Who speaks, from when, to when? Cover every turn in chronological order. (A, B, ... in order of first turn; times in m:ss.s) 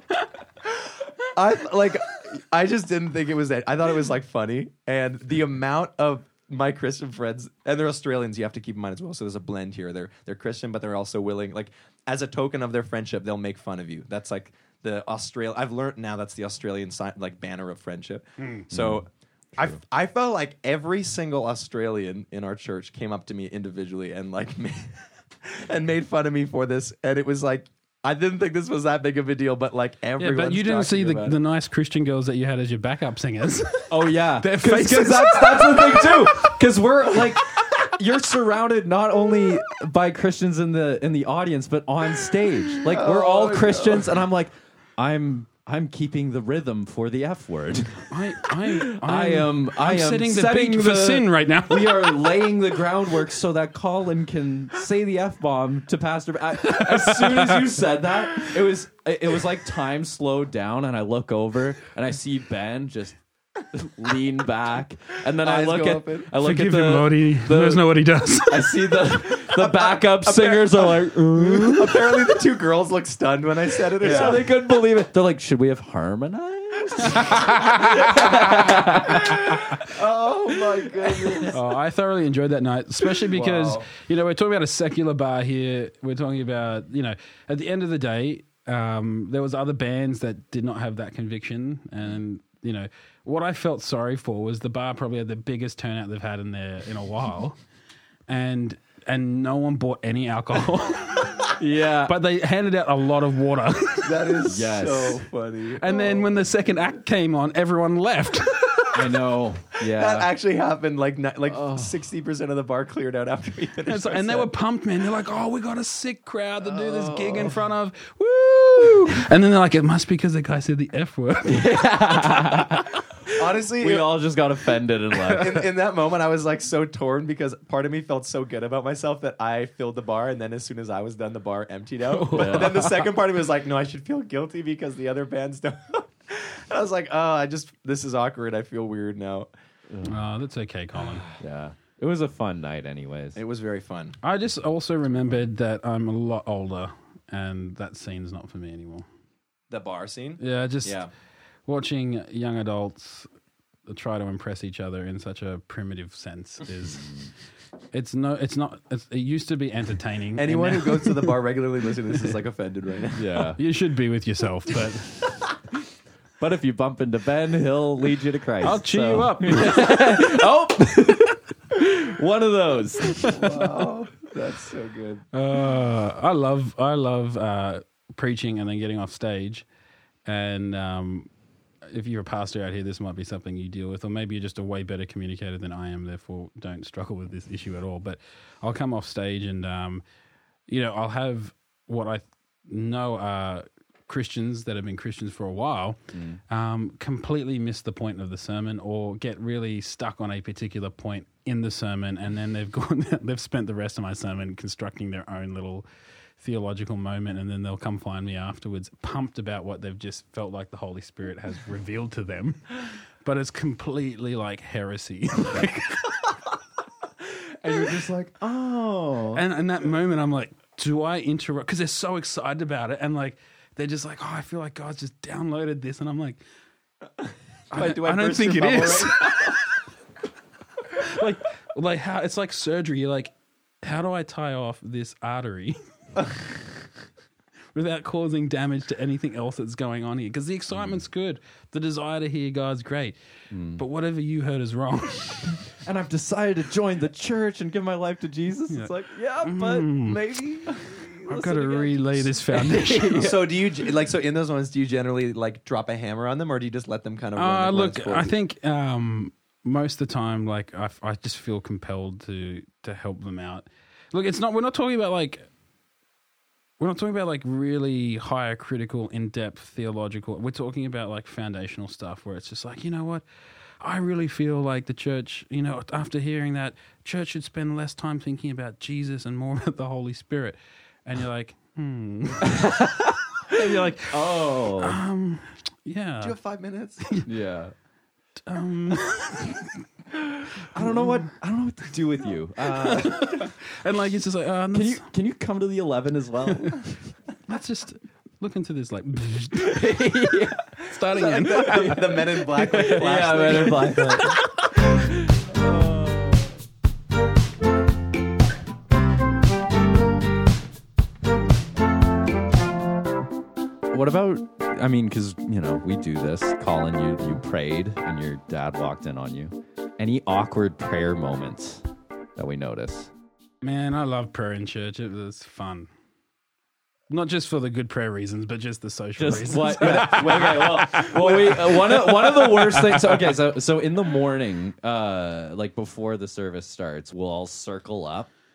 0:01.3-0:31.4 A
0:18.4-0:18.7 B
0:18.7-0:19.0 C
0:30.2-0:36.6 B
0:33.9-0:48.1 C
0:42.8-0:44.1 A
0:48.1-0:52.2 B
0:48.6-1:03.2 C
0:56.6-0:57.7 B
1:03.7-1:07.9 C
1:05.4-1:06.3 A
1:06.4-1:09.0 B
1:08.5-1:12.4 C
1:09.4-1:14.5 A
1:14.0-1:19.8 C
1:14.1-1:14.3 B
1:17.2-1:18.7 B
1:19.1-1:21.6 A
1:21.0-1:21.6 C
1:21.5-1:37.6 B
1:23.3-1:23.9 A
1:38.3-1:44.4 B
1:41.6-1:42.2 C
1:44.0-1:46.4 A
1:44.4-1:45.2 C
1:45.8-1:49.2 B
1:48.9-1:50.3 C
1:49.8-1:54.5 A
1:51.5-1:51.9 C
1:53.9-2:02.9 B
1:56.6-1:57.6 A
2:01.4-2:03.0 C
2:03.4-2:04.2 A
2:03.8-2:05.7 C
2:05.3-2:19.5 A
2:12.1-2:12.9 B
2:12.3-2:13.0 C
2:19.9-2:20.2 C
2:20.0-2:21.3 B
2:21.4-2:23.4 C
2:23.4-2:24.2 A
2:24.2-2:29.0 B
2:29.7-2:31.1 A
2:30.4-2:31.0 B
2:31.7-2:33.3 B
2:33.9-2:37.2 B
2:37.9-2:41.4 B
2:40.4-2:43.4 A
2:43.2-2:43.6 C
2:43.6-2:45.4 B
2:46.4-2:53.4 C
2:48.6-2:50.4 B
2:53.1-2:53.7 B
2:53.2-2:55.2 A
2:55.3-2:59.7 B
3:00.3-3:01.3 B
3:01.9-3:10.0 B
3:10.7-3:16.0 B
3:16.1-3:16.4 C
3:16.5-3:25.8 B
3:26.4-3:36.2 B
3:37.6-3:39.4 C
3:39.3-3:46.4 B
3:47.7-3:49.6 A
3:47.7-3:49.7 B
3:51.0-3:55.8 B
3:57.7-4:03.2 B
4:00.7-4:01.0 C
4:03.5-4:03.8 C
4:03.8-4:05.6 B
4:05.7-4:13.5 C
4:08.7-4:10.3 B
4:11.3-4:13.4 B
4:13.1-4:18.3 A
4:17.4-4:25.5 B
4:26.8-4:33.2 B
4:33.8-4:42.7 B
4:42.4-4:45.0 C
4:43.4-4:46.4 B
4:46.2-4:47.1 A
4:47.3-4:47.7 C
4:48.5-4:49.8 B
4:50.6-4:51.3 B
4:50.6-4:53.5 C
4:52.6-4:55.0 B
4:54.7-4:56.8 C
4:56.5-4:56.8 B
4:57.5-5:00.1 B
4:59.6-5:00.7 C
5:00.8-5:04.8 B
5:01.1-5:04.4 A
5:01.5-5:04.4 C
5:05.0-5:06.4 C
5:13.9-5:21.8 C
5:22.4-5:23.1 C
5:23.6-5:25.9 B
5:27.1-5:33.3 B
5:29.2-5:38.3 C
5:30.1-5:30.5 A
5:31.2-5:31.6 A